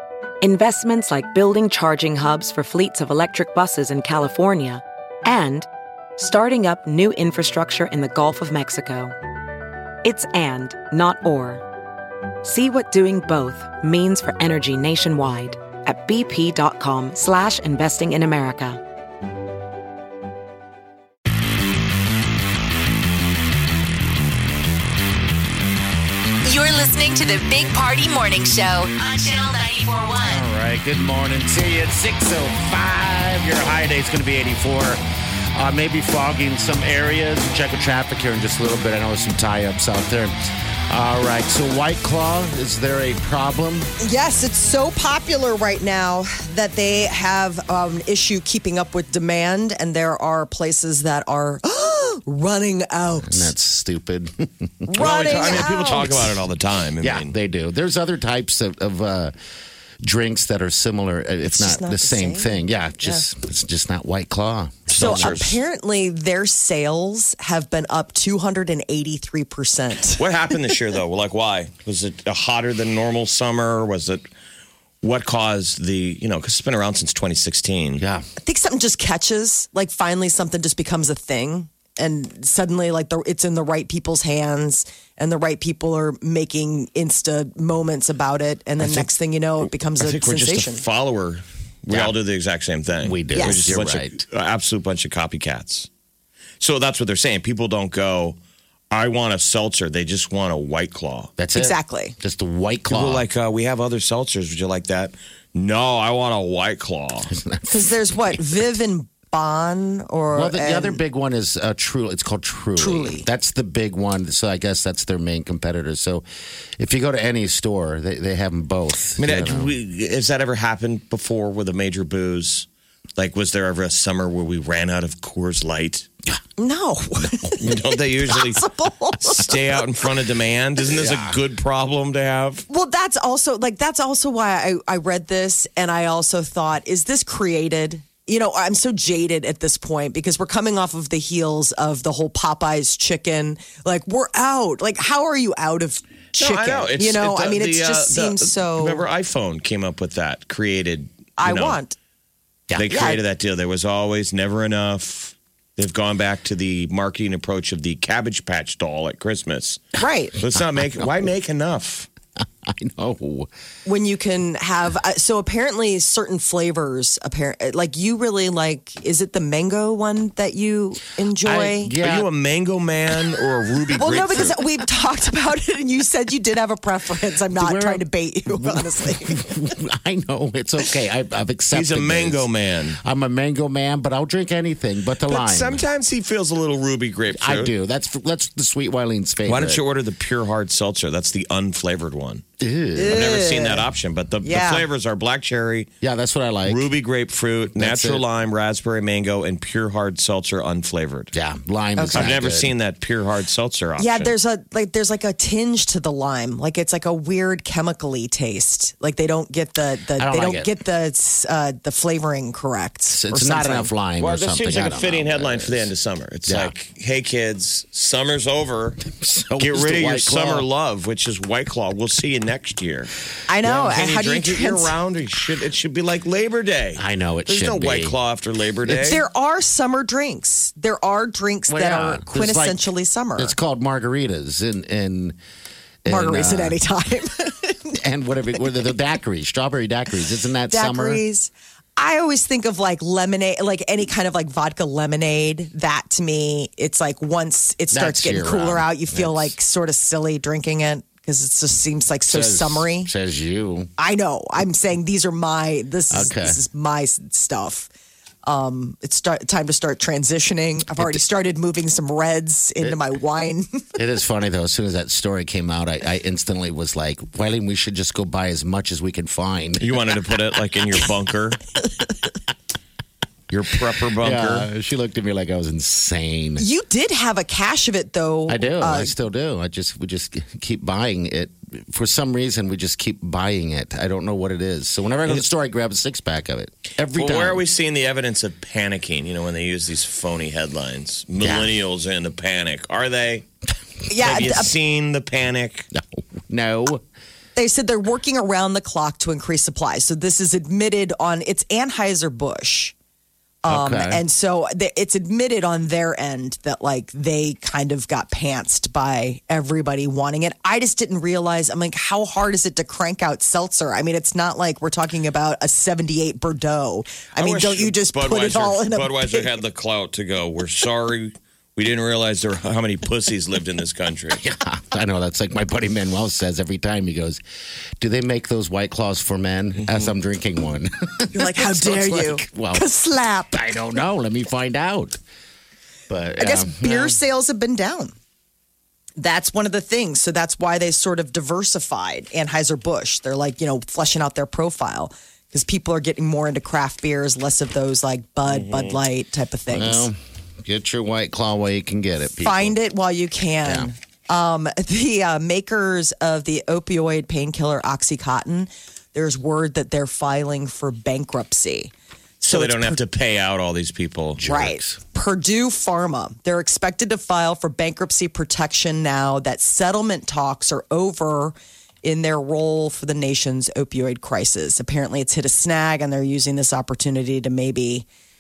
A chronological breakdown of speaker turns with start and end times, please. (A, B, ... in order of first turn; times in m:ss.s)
0:00.4-0:05.7 A
0:06.2-0:09.2 A
0:10.0-0:11.6 A
0:12.4-0:18.8 A
0:26.4-0:30.4 B
0:30.2-0:35.0 C
0:35.6-0:40.3 C
0:40.9-0:43.9 C
0:44.0-0:53.5 D
0:53.2-0:55.6 C
0:54.9-0:56.4 D
0:55.0-0:57.3 E
0:57.0-0:59.3 C
1:00.0-1:05.4 C
1:01.4-1:03.3 D
1:04.9-1:05.6 E
1:04.9-1:10.3 D
1:10.2-1:14.2 E
1:15.0-1:18.0 E
1:18.0-1:18.3 C
1:18.4-1:30.8 D
1:28.8-1:29.1 E
1:29.6-1:35.9 E
1:31.9-1:32.2 C
1:33.0-1:34.2 C
1:33.4-1:33.7 D
1:36.6-1:38.4 E
1:38.9-1:41.3 E
1:41.4-1:43.2 C
1:41.6-1:42.2 D
1:42.9-1:47.3 E
1:47.3-1:48.6 C
1:47.7-1:51.0 D
1:50.3-1:56.2 C
1:52.8-1:53.3 D
1:56.8-1:59.7 C
1:59.2-2:06.1 E
2:06.6-2:09.8 D
2:07.6-2:08.7 E
2:09.2-2:12.7 E
2:10.9-2:11.4 C
2:12.7-2:29.0 D
2:26.4-2:31.8 E
2:31.4-2:32.0 D
2:32.8-2:42.1 E
2:32.9-2:33.2 D
2:40.0-2:40.4 D
2:40.6-2:41.3 C
2:42.6-2:43.5 C
2:43.9-2:51.9 D
2:51.4-2:52.3 C
2:52.0-2:54.6 E
2:54.0-2:59.6 D
2:57.6-3:02.5 C
3:01.7-3:03.0 E
3:03.0-3:05.8 C
3:05.3-3:07.7 E
3:07.4-3:09.8 C
3:09.5-3:12.4 E
3:12.6-3:13.3 C
3:13.0-3:13.8 D
3:13.1-3:15.9 E
3:14.4-3:14.9 D
3:16.0-3:16.9 C
3:16.7-3:21.3 E
3:17.8-3:18.2 C
3:21.3-3:22.7 C
3:22.0-3:22.3 D
3:22.2-3:24.3 E
3:24.0-3:33.9 D
3:30.2-3:30.7 C
3:33.1-3:35.9 C
3:34.2-3:39.0 E
3:36.5-3:36.7 C
3:39.2-3:40.7 C
3:39.6-3:43.1 E
3:43.5-3:45.0 D
3:43.6-3:49.2 E
3:47.0-3:48.2 C
3:48.8-3:49.2 C
3:49.0-3:53.5 D
3:51.7-3:52.8 C
3:53.4-3:55.4 C
3:56.0-3:56.8 C
3:56.1-3:58.0 D
3:58.0-4:01.2 C
4:00.7-4:13.1 D
4:07.9-4:09.5 C
4:12.3-4:13.9 C
4:14.0-4:17.9 D
4:16.1-4:16.6 C
4:18.4-4:23.8 D
4:21.0-4:21.2 C
4:24.0-4:30.2 C
4:29.8-4:31.6 E
4:33.5-4:34.7 E
4:33.7-4:36.6 C
4:36.6-4:39.1 D
4:38.5-4:47.6 C
4:47.2-4:53.4 E
4:51.4-4:51.7 C
4:54.1-4:54.7 D
4:54.2-4:55.9 E
4:56.0-4:57.0 C
4:57.6-5:02.9 D
5:03.6-5:19.5 D
5:03.7-5:04.2 C
5:17.4-5:24.4 E
5:24.4-5:27.4 C
5:28.0-5:32.8 C
5:31.3-5:33.6 D
5:33.5-5:35.2 C
5:36.1-5:37.2 C
5:36.4-5:38.1 D
5:39.2-5:50.1 D
5:48.5-5:49.0 E
5:49.7-5:52.8 C
5:52.4-6:03.0 D
5:53.6-5:53.9 C
6:02.4-6:04.4 E
6:04.4-6:05.0 C
6:04.4-6:18.1 D